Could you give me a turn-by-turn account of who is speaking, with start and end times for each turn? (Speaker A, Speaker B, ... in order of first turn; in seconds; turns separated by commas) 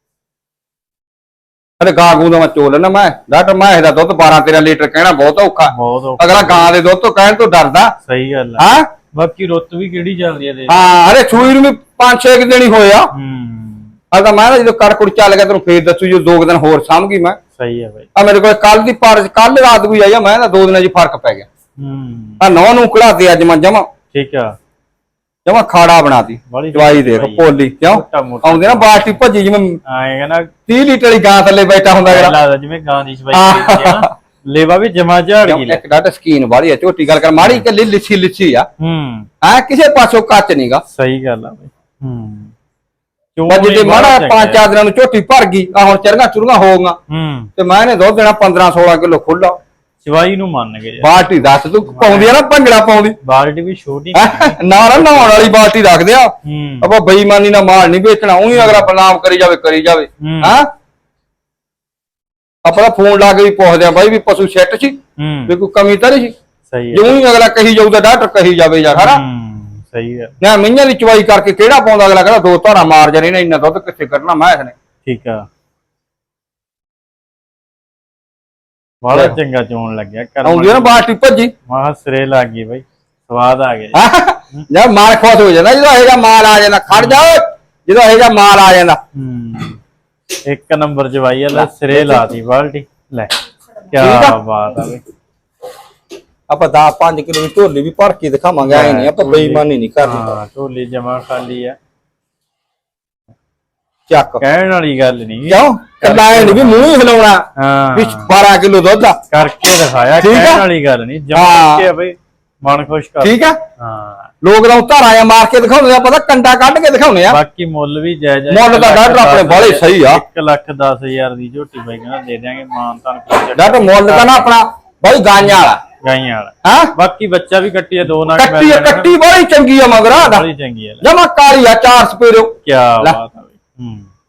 Speaker A: 1.8-7.9, Speaker B: 5.7-6.7, Speaker B: 8.1-10.8, Speaker A: 8.6-8.9, Speaker A: 10.7-13.1, Speaker B: 13.1-13.9, Speaker A: 14.1-17.4, Speaker B: 17.6-18.1, Speaker A: 18.1-21.4, Speaker B: 21.8-22.4, Speaker A: 22.4-23.9, Speaker B: 24.1-24.6, Speaker A: 25.4-29.8, Speaker B: 26.5-29.2, Speaker B: 29.9-30.5, Speaker A: 30.7-32.4, Speaker B: 32.1-35.8, Speaker A: 33.3-34.1, Speaker A: 35.4-38.7, Speaker B: 37.4-37.6, Speaker B: 38.8-39.3, Speaker A: 39.4-40.8, Speaker B: 40.9-42.5, Speaker B: 43.4-44.6, Speaker A: 43.5-47.0, Speaker B: 47.1-47.5, Speaker A: 47.6-49.6, Speaker B: 50.0-51.2, Speaker A: 51.0-53.1, Speaker B: 51.9-52.3, Speaker B: 53.2-55.5, Speaker A: 54.1-60.7, Speaker B: 56.4-56.9, Speaker B: 58.5-58.9, Speaker B: 60.2-60.6, Speaker A: 62.6-65.0, Speaker B: 65.2-65.5, Speaker A: 65.5-66.3, Speaker B: 66.7-67.1, Speaker A: 66.9-69.2, Speaker B: 69.0-70.3, Speaker A: 70.4-74.7, Speaker B: 75.0-75.4, Speaker B: 79.0-81.0, Speaker A: 80.4-81.5, Speaker B: 81.7-84.0, Speaker A: 83.9-89.0, Speaker B: 86.9-87.2, Speaker B: 89.1-89.8, Speaker B: 90.5-93.3, Speaker A: 91.5-92.3, Speaker B: 93.9-95.0, Speaker A: 94.0-94.4, Speaker A: 96.5-100.2, Speaker B: 98.6-101.8, Speaker A: 104.1-104.4, Speaker B: 104.4-106.9, Speaker A: 105.5-107.4, Speaker B: 107.6-108.3, Speaker A: 107.9-109.2, Speaker B: 109.3-114.3, Speaker A: 110.2-110.7, Speaker A: 111.3-111.9, Speaker A: 113.2-113.6, Speaker A: 114.4-117.4, Speaker B: 117.3-124.5, Speaker A: 118.5-120.2, Speaker A: 123.5-125.8, Speaker B: 125.4-129.1, Speaker A: 126.6-126.9, Speaker A: 128.1-130.5, Speaker B: 130.0-131.0, Speaker A: 131.0-133.2, Speaker B: 132.6-134.1